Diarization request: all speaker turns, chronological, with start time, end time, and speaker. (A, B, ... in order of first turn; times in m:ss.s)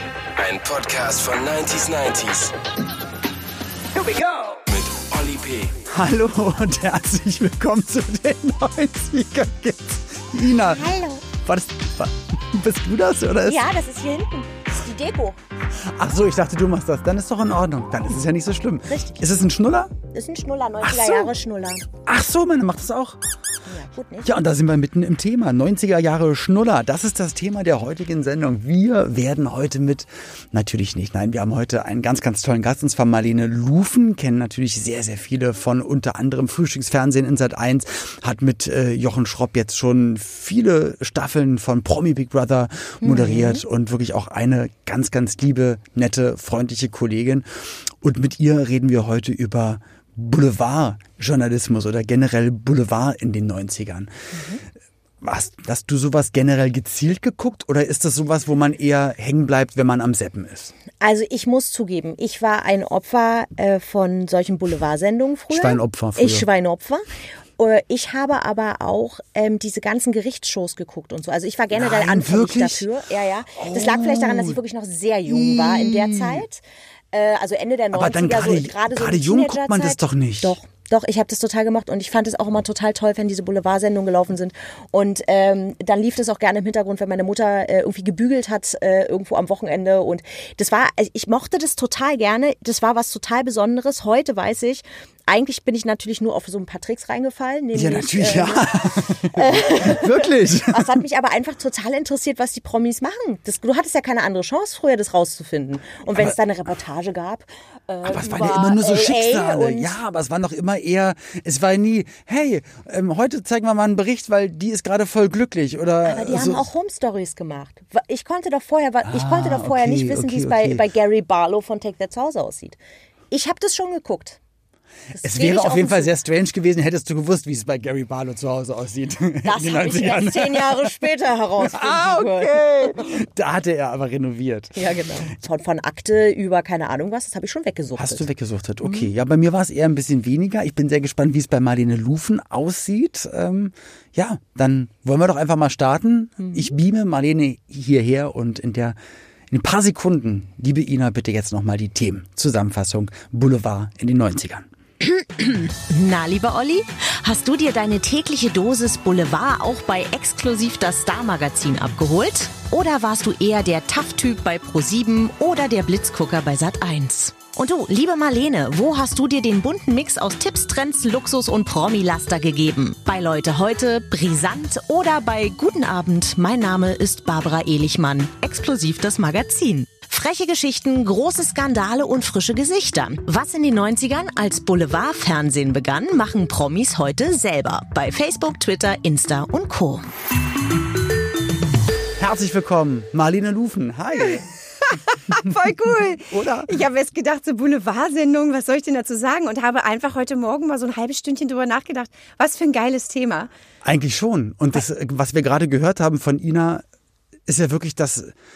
0:00.4-0:02.5 A
0:04.0-0:05.7 A
0:05.8-0:13.7 B
0:10.7-0:11.2 C
0:13.5-0:15.4 C
0:15.8-0:19.9 B
0:18.9-0:19.3 C
0:20.1-0:21.9 C
0:20.8-0:21.4 B
0:22.0-0:23.2 B
0:23.6-0:24.4 C
0:24.2-0:54.1 B
0:43.0-0:43.6 C
0:54.4-0:54.6 C
0:55.2-1:00.7 B
1:01.0-1:07.0 C
1:05.5-1:06.5 B
1:07.6-1:49.9 C
1:11.7-1:12.9 B
1:13.6-1:14.6 B
1:15.3-1:16.4 B
1:17.9-1:20.6 B
1:37.7-1:41.0 B
1:48.0-1:56.7 B
1:56.0-2:02.8 C
1:59.1-2:00.9 B
2:03.3-2:04.4 C
2:05.1-2:06.1 C
2:05.2-2:10.9 B
2:09.4-2:13.1 C
2:11.6-2:14.9 B
2:14.8-2:18.2 C
2:18.0-2:29.0 B
2:18.8-2:19.1 C
2:29.5-2:34.7 B
2:35.0-3:10.1 D
3:12.2-3:14.5 B
3:14.9-3:23.5 E
3:16.3-3:16.7 B
3:23.8-3:26.8 B
3:27.5-3:28.3 B